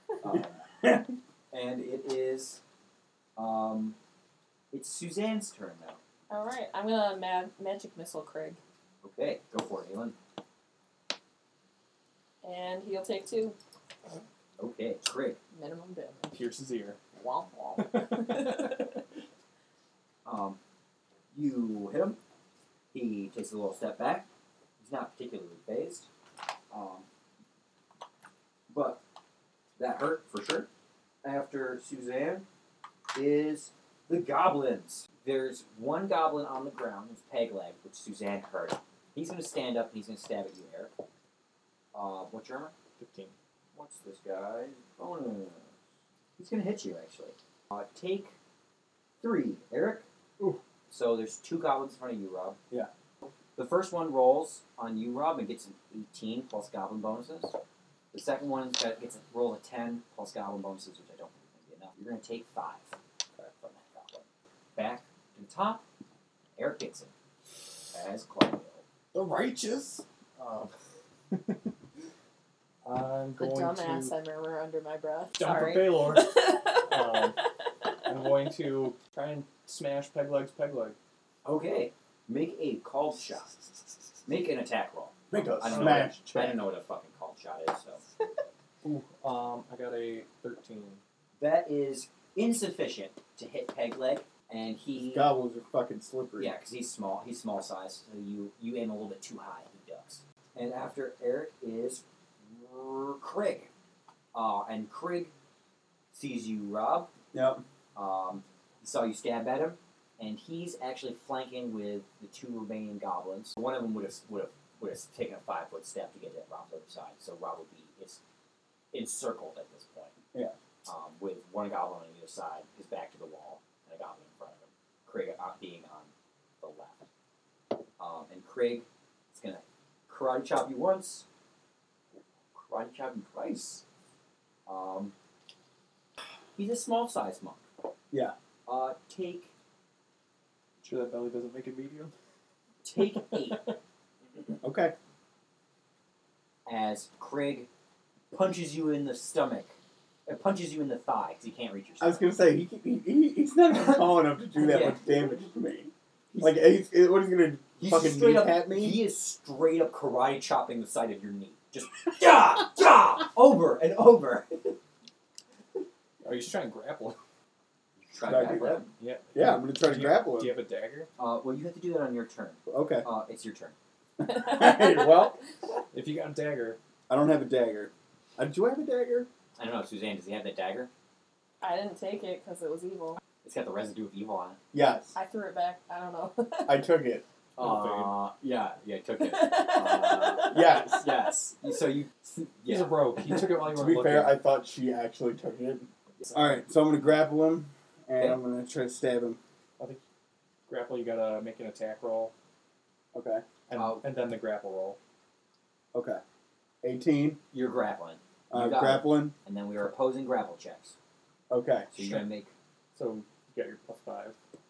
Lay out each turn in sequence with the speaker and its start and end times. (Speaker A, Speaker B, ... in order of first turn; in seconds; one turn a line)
Speaker A: 0.2-0.6
Speaker B: 0.3-1.1
Speaker A: 1.5-2.6
Speaker A: 3.4-4.0
Speaker A: 4.7-6.0
Speaker C: 6.3-8.6
Speaker A: 9.0-10.1
Speaker C: 12.4-13.6
Speaker A: 14.6-15.4
Speaker C: 15.5-16.4
Speaker D: 16.3-17.0
Speaker C: 17.1-18.8
Speaker D: 18.0-18.4
Speaker A: 20.2-20.6
Speaker A: 21.3-22.2
Speaker A: 22.9-24.3
Speaker A: 24.8-26.1
Speaker A: 26.7-27.1
Speaker A: 28.7-29.0
Speaker A: 29.8-30.7
Speaker A: 31.2-32.5
Speaker A: 33.1-40.9
Speaker A: 41.9-42.7
Speaker D: 43.0-43.3
Speaker A: 43.7-45.7
Speaker A: 46.4-48.3
Speaker A: 49.2-50.0
Speaker A: 50.9-52.6
Speaker A: 53.5-57.6
Speaker A: 58.1-64.2
Speaker A: 64.8-65.8
Speaker A: 66.6-67.1
Speaker A: 67.9-68.8
Speaker D: 69.1-70.7
Speaker D: 72.8-74.1
Speaker C: 73.4-76.9
Speaker D: 75.3-77.4
Speaker D: 78.0-81.0
Speaker A: 81.4-83.6
Speaker A: 84.2-88.0
Speaker B: 85.3-86.6
Speaker D: 85.7-86.1
Speaker D: 88.8-91.0
Speaker A: 91.4-95.3
Speaker B: 95.0-96.5
Speaker A: 96.4-103.7
Speaker A: 104.3-105.3
Speaker A: 106.1-107.1
Speaker B: 107.3-107.6
Speaker A: 107.9-118.2
Speaker A: 118.9-120.2
Speaker A: 120.8-127.0
Speaker A: 128.0-131.2
Speaker A: 132.5-133.8
Speaker A: 134.7-135.1
Speaker A: 136.6-137.6
Speaker A: 138.7-139.5
Speaker D: 140.8-142.1
Speaker A: 142.8-143.7
Speaker D: 143.3-143.6
Speaker B: 144.6-144.9
Speaker A: 146.7-147.7
Speaker A: 148.3-149.7
Speaker A: 150.3-152.2
Speaker B: 152.0-159.0
Speaker A: 154.5-155.0
Speaker A: 156.3-156.7
Speaker A: 157.8-164.8
Speaker D: 166.2-167.2
Speaker A: 168.0-168.9
Speaker B: 168.2-170.6
Speaker D: 168.9-171.1
Speaker A: 171.2-173.7
Speaker B: 172.7-173.1
Speaker B: 174.2-175.4
Speaker C: 174.4-174.8
Speaker D: 175.9-176.8
Speaker B: 177.1-179.3
Speaker A: 179.6-180.9
Speaker C: 181.6-183.2
Speaker A: 183.4-184.6
Speaker B: 184.7-185.1
Speaker C: 185.1-186.8
Speaker B: 186.7-187.2
Speaker D: 187.6-188.1
Speaker A: 187.6-193.6
Speaker C: 189.2-190.5
Speaker B: 190.5-191.1
Speaker D: 192.7-194.4
Speaker B: 193.6-199.4
Speaker D: 200.7-202.3
Speaker B: 203.1-203.4
Speaker D: 203.7-205.0
Speaker A: 203.8-204.0
Speaker B: 205.9-206.2
Speaker B: 206.8-207.4
Speaker A: 207.5-210.9
Speaker B: 208.5-209.3
Speaker B: 211.5-211.9
Speaker A: 211.9-212.5
Speaker D: 211.9-212.3
Speaker D: 212.9-214.4